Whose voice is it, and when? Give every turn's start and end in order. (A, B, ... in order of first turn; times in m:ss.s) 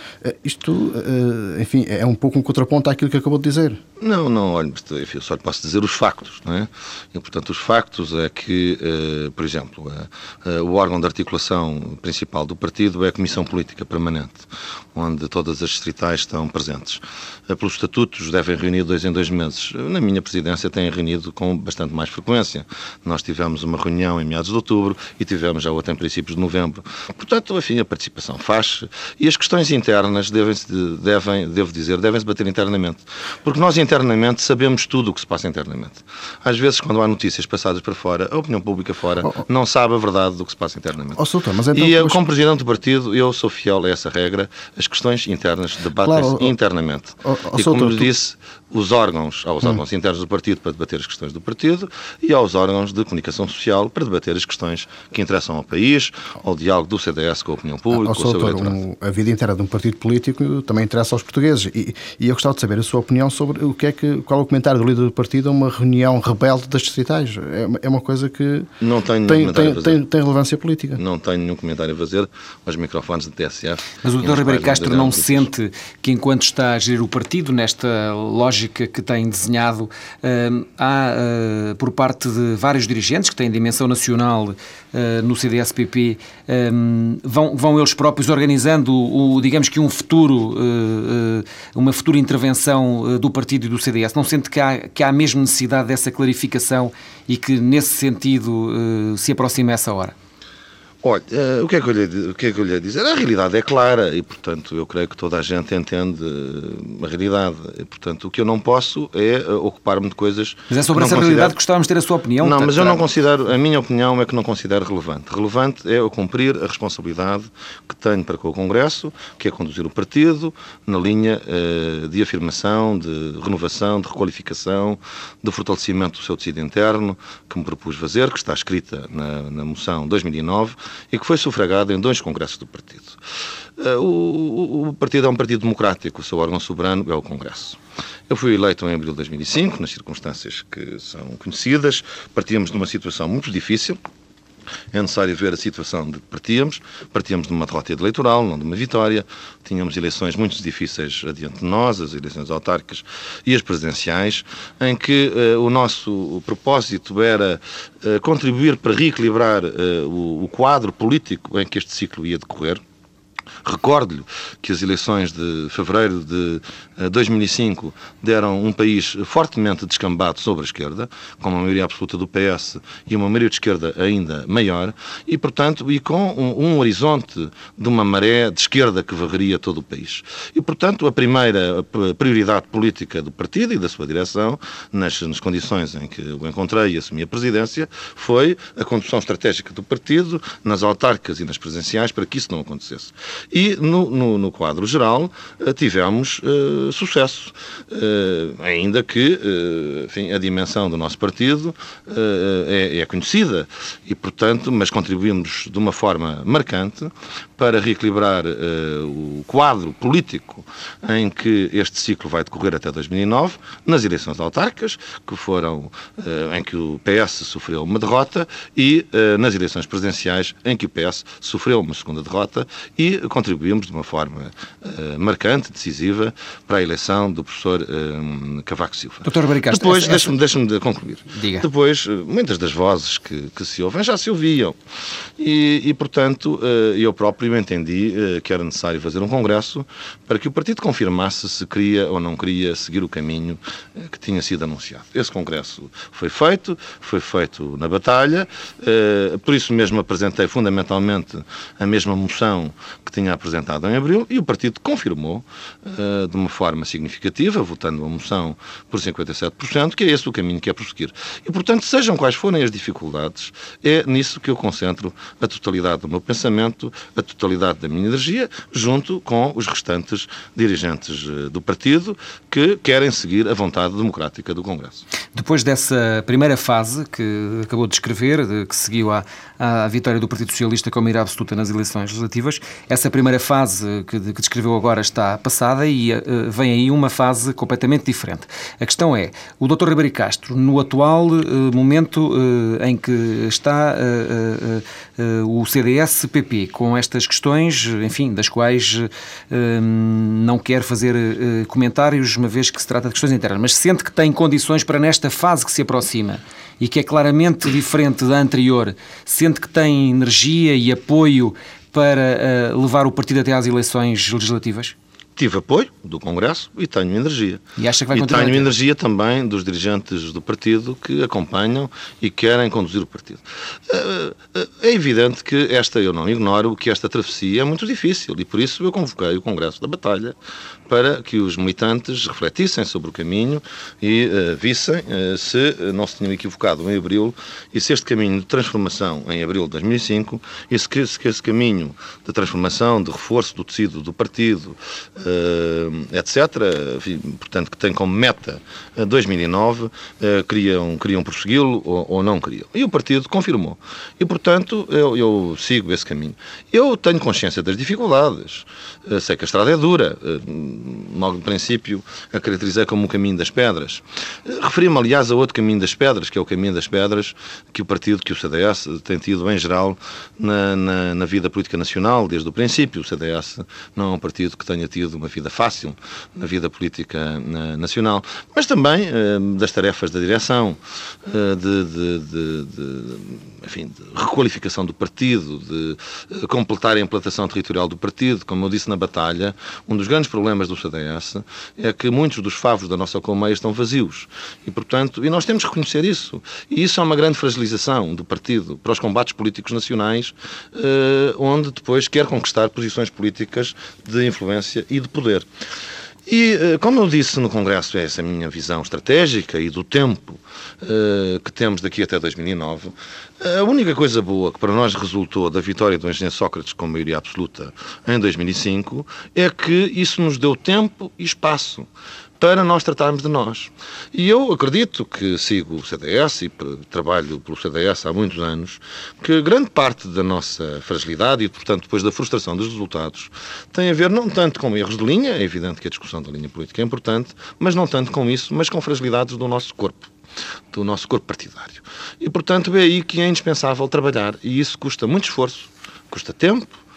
0:00.2-0:03.8 A
0:04.0-0:41.2 B
0:41.2-0:42.2 A
0:41.7-0:58.8 B
0:46.0-0:46.5 A
0:47.2-0:48.1 A
0:57.9-1:08.7 A
1:08.8-1:10.0 B
1:09.2-1:11.0 A
1:11.0-1:15.5 B
1:14.0-1:40.1 C
1:41.0-1:51.6 B
1:50.7-1:53.0 C
1:52.4-2:13.2 B
2:13.8-2:17.8 B
2:18.3-2:24.0 B
2:24.9-2:42.8 B
2:43.6-3:54.8 B
3:49.2-3:50.3 C
3:51.3-3:51.6 C
3:55.4-4:35.0 B
4:35.3-5:14.9 C
5:15.4-5:30.3 B
5:17.8-5:18.7 C
5:30.9-6:45.4 B
6:46.3-7:01.9 B
7:02.4-7:20.1 B
7:20.7-7:26.8 B